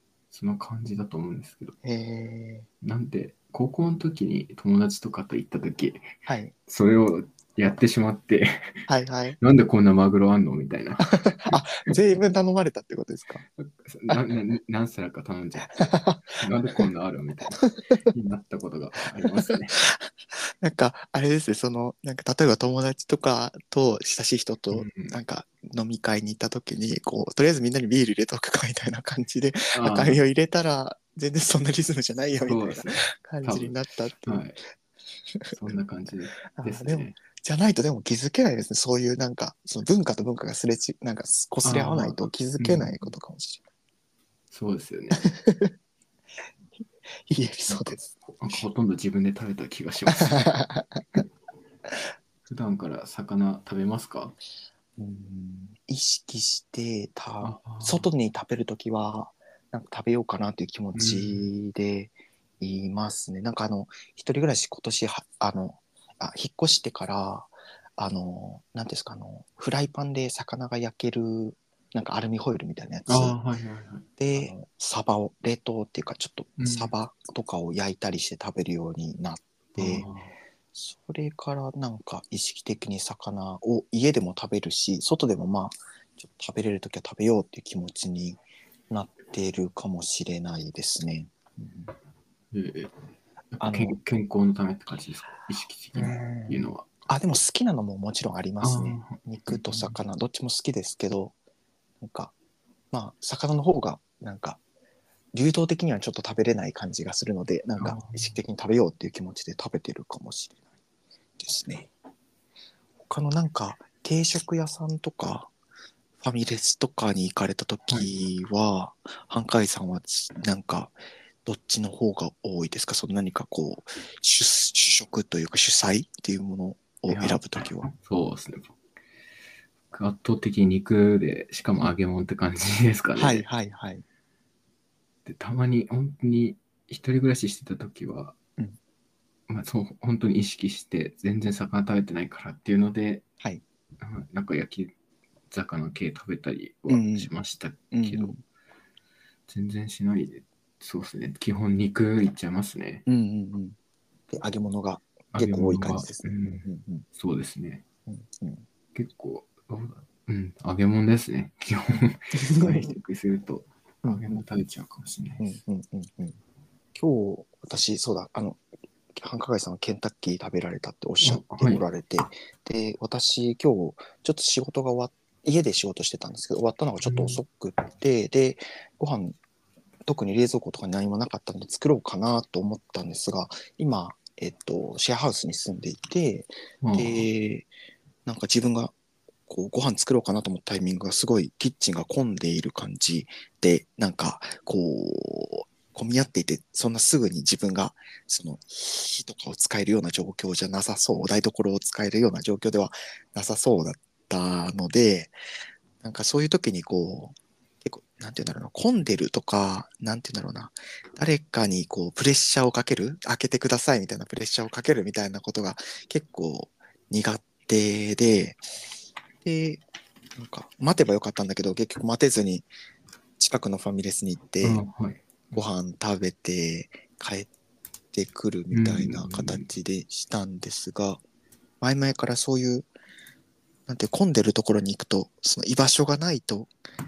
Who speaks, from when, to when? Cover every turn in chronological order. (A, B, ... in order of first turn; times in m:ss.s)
0:00.3-0:01.8 A
0:01.8-0:02.7 B
0:02.8-0:06.1 A
0:06.3-0:06.5 B
0:06.7-0:08.9 A
0:08.9-0:09.4 B
0:09.4-0:11.6 A
0:11.0-0:13.4 B
0:13.6-0:19.8 A
0:15.7-0:16.9 B
0:17.6-0:18.1 B
0:19.4-0:34.4 B
0:24.7-0:25.2 A
0:29.7-0:30.2 A
0:32.4-0:34.6 A
0:35.5-0:37.2 A
0:36.5-0:43.6 B
0:41.6-0:43.1 A
0:44.5-0:45.2 A
0:45.2-0:45.7 B
0:47.3-0:48.6 B
0:47.7-0:50.5 A
0:50.1-0:51.2 B
0:52.5-0:54.4 A
0:55.0-1:13.4 B
0:57.4-0:58.1 A
1:01.0-1:01.5 A
1:13.1-1:14.5 A
1:14.2-1:20.1 B
1:16.6-1:16.9 A
1:19.8-1:20.4 A
1:20.8-1:31.9 B
1:32.5-1:32.9 A
1:33.6-1:36.9 A
1:33.6-1:34.0 B
1:36.0-1:41.4 B
1:38.6-1:40.0 A
1:42.0-1:42.3 B
1:42.9-1:44.6 B
1:45.3-1:50.6 B
1:47.8-1:48.4 A
1:51.4-1:51.9 B
1:53.1-1:55.5 B
1:56.2-2:07.9 B
2:07.1-2:08.8 A
2:09.9-2:13.4 A
2:13.2-2:14.0 B
2:15.3-2:18.4 A
2:19.5-2:23.2 A
2:24.0-2:24.9 A
2:25.5-2:28.3 A
2:26.9-2:27.3 B
2:27.9-2:28.4 B
2:29.5-2:33.0 A
2:33.1-2:33.8 B
2:34.3-2:37.1 B
2:35.3-2:37.8 A
2:38.1-2:38.6 B
2:38.9-2:45.6 A
2:42.3-2:42.9 B
2:44.0-2:44.4 B
2:45.4-2:46.4 B
2:47.0-2:48.6 B
2:49.1-2:59.4 B
2:51.2-2:51.8 A
2:57.0-2:57.4 A
3:00.1-3:07.7 B
3:06.8-3:07.3 A
3:08.3-3:08.9 B
3:09.5-3:25.3 B
3:26.0-3:38.6 B
3:39.4-3:39.8 B
3:40.4-3:42.7 B
3:43.4-3:44.8 B
3:44.6-3:45.3 A
3:45.5-3:47.5 B
3:48.1-3:51.2 B
3:48.7-3:49.6 A
3:51.8-3:52.9 B
3:53.9-3:56.7 B